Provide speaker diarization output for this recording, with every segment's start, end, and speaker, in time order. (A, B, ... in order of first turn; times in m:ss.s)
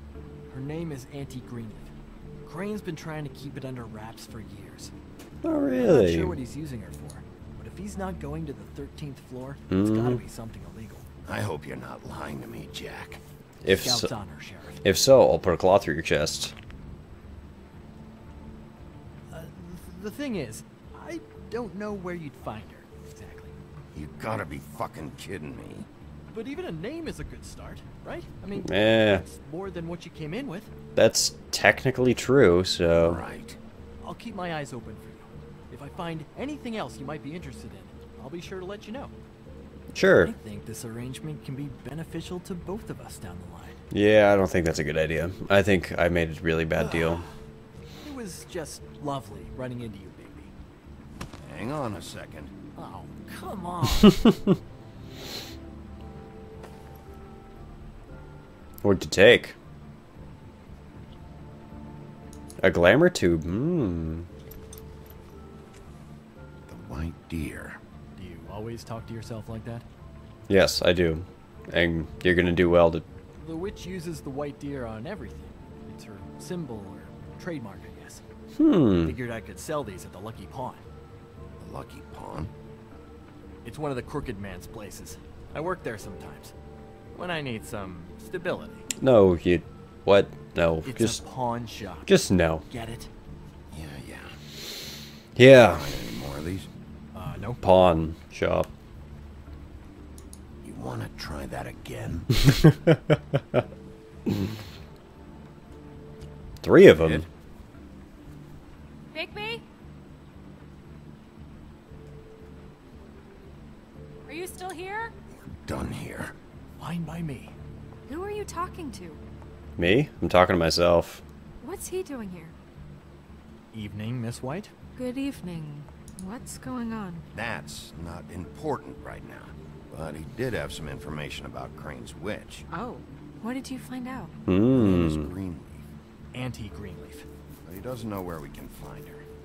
0:00.5-0:01.9 A
0:02.4-0:04.9 A
0:05.4-0:06.4 B
0:05.8-0:11.1 A
0:09.7-0:10.2 B
0:11.2-0:13.2 C
0:13.6-0:14.1 B
0:13.7-0:14.8 A
0:14.8-0:16.6 B
0:19.3-0:23.5 A
0:23.9-0:25.9 C
0:26.3-0:30.7 A
0:28.6-0:29.2 B
0:31.0-0:33.2 B
0:33.0-0:33.6 C
0:34.0-0:39.1 A
0:39.9-0:40.3 B
0:40.2-0:43.8 A
0:43.9-0:47.2 B
0:46.8-0:47.3 A
0:48.0-0:50.5 A
0:51.4-0:52.5 C
0:52.8-0:54.4 A
0:58.8-0:59.6 B
1:02.6-1:04.3 B
1:06.7-1:07.8 C
1:08.2-1:09.8 A
1:10.5-1:13.0 B
1:13.4-1:18.2 A
1:18.6-1:19.2 B
1:19.0-1:20.8 A
1:21.6-1:22.5 C
1:23.6-1:26.5 A
1:27.1-1:28.8 A
1:29.0-1:31.2 B
1:30.8-1:32.1 A
1:32.1-1:32.6 B
1:32.7-1:33.1 A
1:33.7-1:34.4 C
1:35.4-1:35.9 B
1:35.4-1:36.7 C
1:37.1-1:37.6 A
1:37.6-1:38.7 B
1:40.6-1:42.5 C
1:42.6-1:43.6 B
1:46.6-1:47.2 B
1:49.1-1:49.6 D
1:54.2-1:55.1 D
1:55.5-1:56.4 C
1:56.8-1:57.6 A
1:58.1-1:59.2 D
1:59.8-2:01.2 B
2:01.6-2:02.6 D
2:03.7-2:04.7 A
2:05.0-2:07.2 D
2:07.3-2:12.6 C
2:12.7-2:14.4 D
2:14.5-2:15.3 B
2:14.7-2:15.9 C
2:16.3-2:17.3 A
2:17.6-2:19.2 C